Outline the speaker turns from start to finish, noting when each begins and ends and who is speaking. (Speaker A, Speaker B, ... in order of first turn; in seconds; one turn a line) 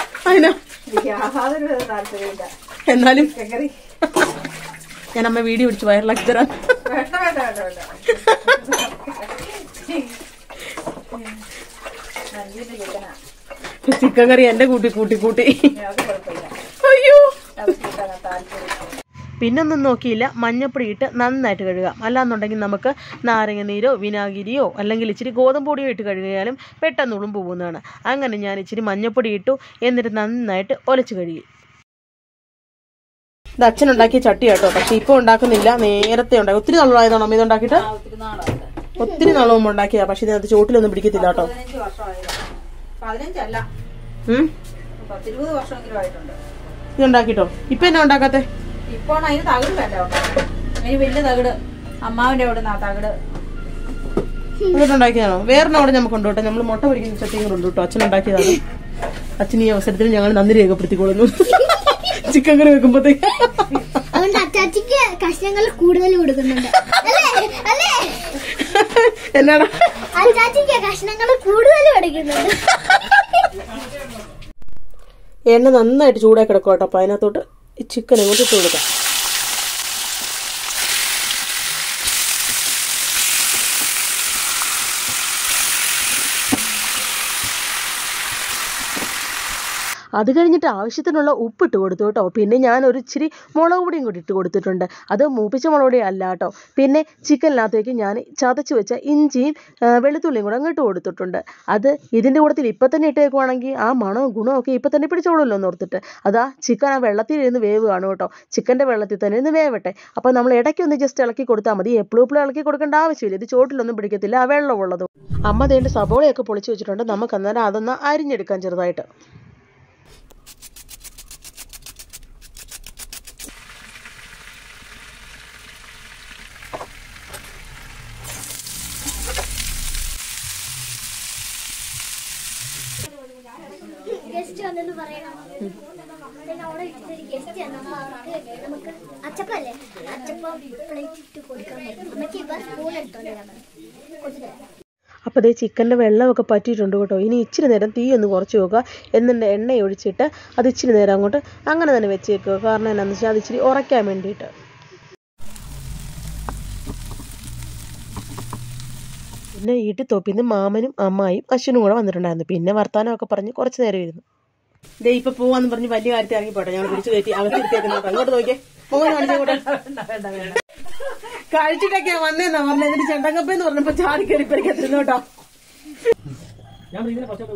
Speaker A: 0.2-0.6
Speaker B: 0.8-2.5
Speaker A: 2.9-3.3
Speaker B: 3.1-3.8
Speaker A: 5.1-6.8
Speaker B: 6.8-10.2
Speaker B: 12.3-13.2
Speaker A: 13.8-15.7
Speaker B: 15.7-16.6
Speaker A: 16.8-17.4
Speaker B: 17.6-18.9
Speaker A: 19.4-31.4
Speaker A: 33.6-37.9
Speaker B: 37.7-38.7
Speaker A: 39.0-41.5
Speaker B: 41.1-42.4
Speaker B: 43.0-43.6
Speaker B: 45.0-46.4
Speaker A: 47.0-48.5
Speaker B: 48.9-53.2
Speaker A: 54.7-58.6
Speaker A: 59.4-64.0
Speaker C: 64.1-68.4
Speaker A: 68.5-69.8
Speaker C: 70.1-72.6
Speaker A: 75.5-78.8
Speaker A: 90.2-119.1
Speaker C: 134.1-135.6
Speaker C: 136.4-143.6
Speaker C: 144.2-144.5
Speaker A: 145.3-154.5
Speaker A: 159.6-164.2
Speaker A: 165.0-170.3
Speaker A: 171.1-175.2